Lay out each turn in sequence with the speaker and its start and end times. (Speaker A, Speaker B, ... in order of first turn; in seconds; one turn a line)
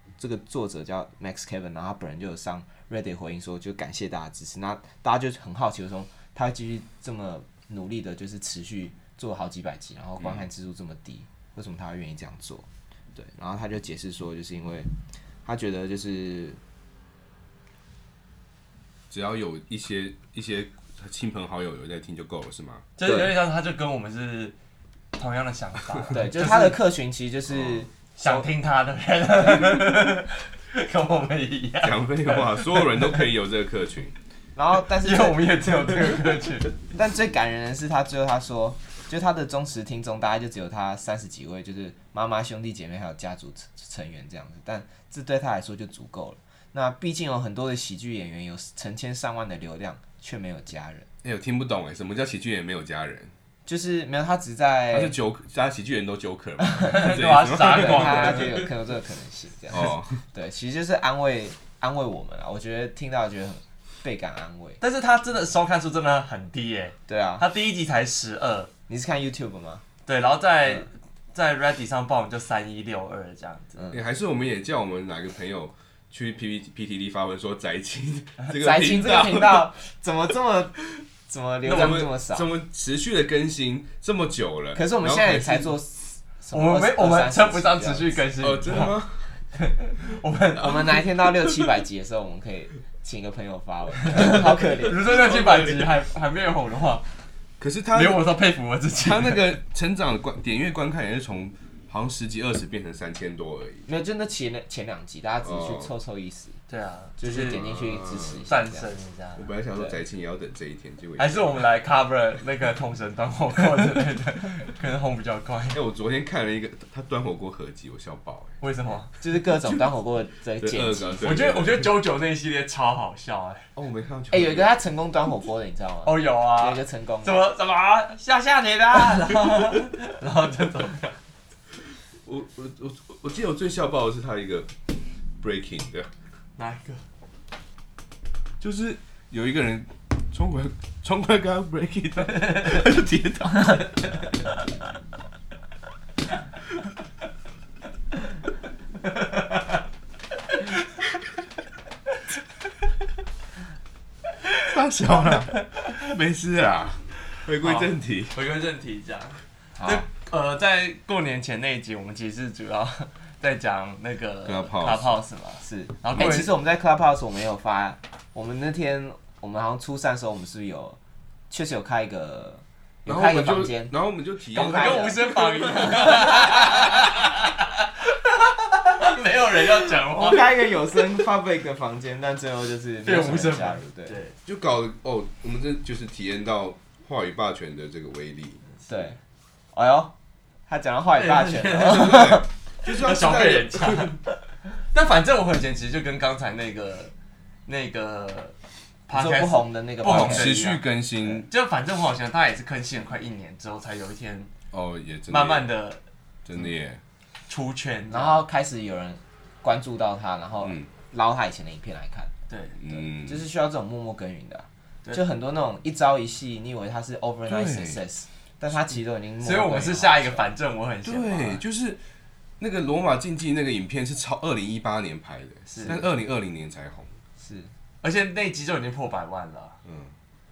Speaker A: 0.2-14.9
Speaker B: 10.2-10.4
Speaker A: 15.4-16.6
Speaker B: 19.1-22.9
Speaker C: 23.0-24.6
Speaker A: 23.0-23.3
Speaker C: 25.1-26.8
Speaker A: 26.1-28.5
Speaker C: 28.2-33.1
Speaker A: 29.4-29.8
Speaker B: 31.8-34.1
Speaker A: 34.5-35.7
Speaker C: 35.0-36.7
Speaker A: 36.9-51.1
Speaker B: 51.2-53.3
Speaker A: 53.6-55.1
Speaker B: 54.9-58.7
Speaker A: 56.6-57.0
Speaker C: 56.8-58.6
Speaker A: 57.6-64.8
Speaker B: 59.7-60.2
Speaker C: 64.8-68.7
Speaker A: 67.1-67.5
Speaker A: 68.9-69.8
Speaker C: 70.0-73.8
Speaker B: 73.9-79.7
Speaker A: 78.5-82.5
Speaker B: 81.6-85.7
Speaker A: 84.7-88.2
Speaker C: 86.5-89.0
Speaker B: 88.4-89.3
Speaker C: 89.5-91.4
Speaker A: 90.6-95.1
Speaker C: 94.0-97.0
Speaker B: 95.0-95.9
Speaker B: 97.6-98.2
Speaker C: 97.9-99.4
Speaker B: 99.0-103.9
Speaker A: 103.9-106.6
Speaker B: 105.4-105.9
Speaker C: 106.7-107.6
Speaker A: 107.2-108.9
Speaker B: 107.5-108.5
Speaker C: 108.5-109.5
Speaker B: 109.3-111.5
Speaker C: 111.2-115.8
Speaker B: 115.7-118.6
Speaker C: 118.6-119.1
Speaker A: 119.2-121.3
Speaker B: 120.6-121.9
Speaker C: 121.2-123.6
Speaker B: 123.7-124.7
Speaker A: 124.3-127.4
Speaker C: 126.0-131.1
Speaker B: 132.2-134.9
Speaker B: 135.4-136.1
Speaker C: 136.6-137.0
Speaker B: 138.6-144.0
Speaker C: 142.3-142.8
Speaker C: 143.6-144.5
Speaker C: 149.0-149.8
Speaker B: 154.6-158.3
Speaker C: 155.5-156.1
Speaker C: 157.6-166.5
Speaker A: 159.8-160.1
Speaker B: 164.4-165.2
Speaker A: 165.6-171.0
Speaker B: 166.1-166.4
Speaker A: 171.5-173.9
Speaker B: 173.1-175.7
Speaker A: 174.5-176.8
Speaker C: 174.5-180.6
Speaker A: 180.1-184.2
Speaker C: 183.0-184.3
Speaker B: 184.4-188.6
Speaker A: 188.9-189.2
Speaker A: 189.7-190.1
Speaker A: 190.7-192.4
Speaker C: 191.1-194.2
Speaker B: 191.7-194.2
Speaker C: 194.9-197.1
Speaker C: 197.7-198.6
Speaker C: 199.1-200.8
Speaker A: 199.1-200.6
Speaker B: 200.0-201.5
Speaker C: 201.4-204.5
Speaker B: 204.7-205.7
Speaker C: 205.3-206.0
Speaker B: 206.4-207.0
Speaker C: 207.5-208.4
Speaker A: 208.1-212.3
Speaker C: 212.5-212.8
Speaker B: 212.8-213.4
Speaker A: 212.9-220.5
Speaker B: 217.5-218.0
Speaker C: 219.4-221.6
Speaker B: 221.0-222.0
Speaker B: 222.6-227.2
Speaker C: 225.7-226.0
Speaker A: 227.4-227.7
Speaker C: 228.0-229.8
Speaker B: 229.8-230.1